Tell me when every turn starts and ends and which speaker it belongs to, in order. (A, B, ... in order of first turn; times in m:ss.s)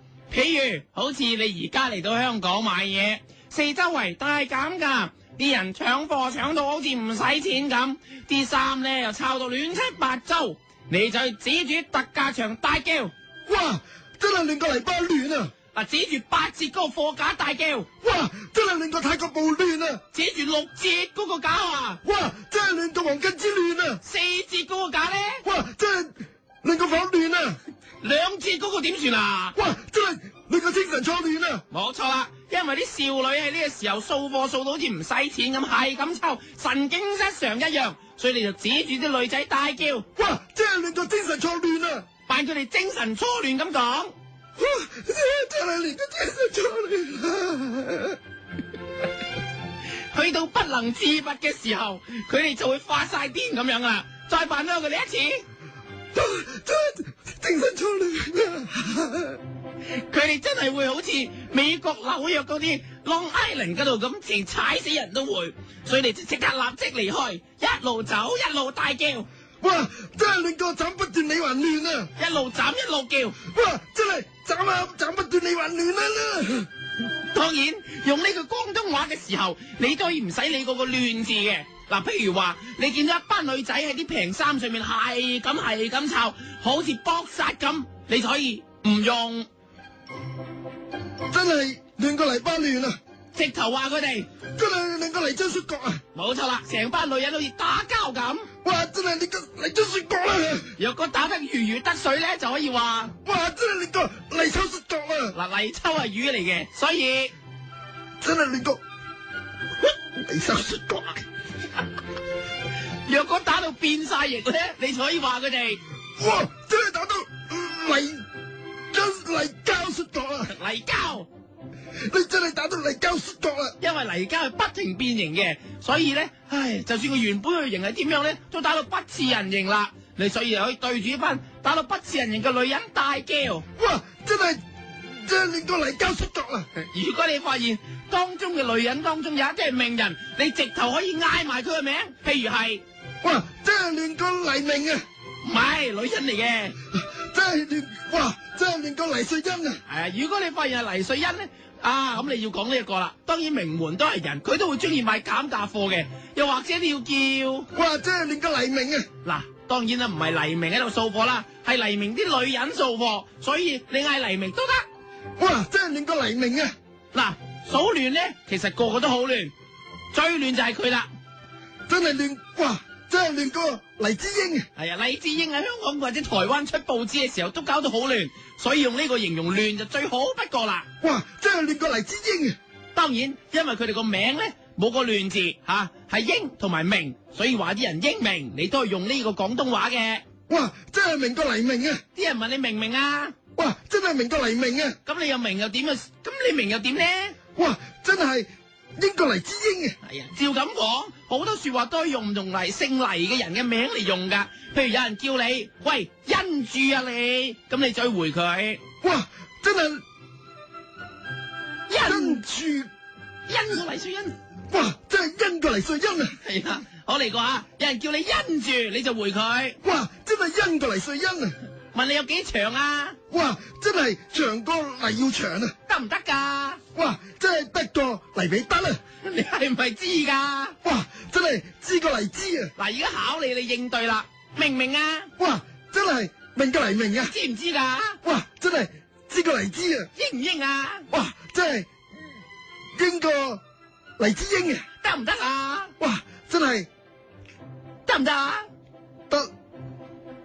0:00.3-0:13.1 A
0:13.4-0:15.5 B
0:15.7-0:17.9 A
0:18.0-0:20.0 B
0:20.1-0:22.0 A
0:22.0-0:24.0 B
0:24.0-0:25.4 A
0:25.4-0:27.6 B
0:28.0-0:29.5 A
0:29.5-0:31.6 B
0:31.7-0:40.0 A
0:40.2-0:42.0 B
0:42.3-0:44.1 A
0:44.6-0:48.2 B
0:50.1-0:55.4 A
0:56.1-0:59.4 B
1:00.1-1:09.2 A
1:09.6-1:12.1 B
1:12.2-1:13.4 A
1:13.4-1:16.7 B
1:17.3-1:29.5 A
1:31.3-1:33.0 B
1:33.3-1:34.3 A
1:34.5-1:36.0 B
1:36.1-1:38.5 A
1:38.6-1:40.7 B
1:40.8-1:43.1 A
1:43.2-1:45.3 B
1:45.3-1:47.3 A
1:48.2-1:48.8 B
1:50.1-1:51.2 B
1:53.0-1:55.8 A
1:56.2-1:58.2 B
1:58.9-2:00.5 B
2:00.5-2:01.3 A
2:02.1-2:03.8 B
2:03.8-2:13.6 A
2:13.8-2:14.6 B
2:15.2-2:16.7 B
2:16.8-2:22.8 A
2:23.2-2:25.0 B
2:25.4-2:26.7 A
2:26.9-2:29.8 B
2:29.9-2:37.6 A
2:37.7-2:39.1 B
2:39.2-2:44.8 A
2:45.4-2:46.7 B
2:47.1-2:49.5 A
2:50.1-2:51.1 A
2:51.9-2:54.6 B
2:54.8-3:00.8 A
3:01.0-3:02.6 B
3:02.9-3:10.2 A
3:10.5-3:12.0 B
3:12.1-3:13.3 A
3:13.6-3:15.0 B
3:15.0-3:17.3 A
3:17.6-3:20.0 B
3:20.0-3:28.8 A
3:29.0-3:30.0 B
3:31.9-3:32.4 A
3:32.0-3:32.9 B
3:33.5-3:34.3 A
3:34.7-3:36.3 B
3:36.4-3:39.8 A
3:39.8-3:41.5 B
3:41.9-3:43.2 A
3:43.3-3:45.7 B
3:45.9-3:46.8 A
3:46.9-3:49.0 B
3:49.2-3:50.8 A
3:50.8-3:52.7 B
3:52.8-3:55.3 A
3:55.4-3:57.3 B
3:57.2-3:58.2 A
3:58.2-4:00.1 B
4:00.1-4:01.0 A
4:01.1-4:01.9 B
4:03.0-4:03.6 B
4:04.2-4:04.8 B
4:05.0-4:05.9 A
4:06.0-4:06.9 B
4:08.0-4:08.6 A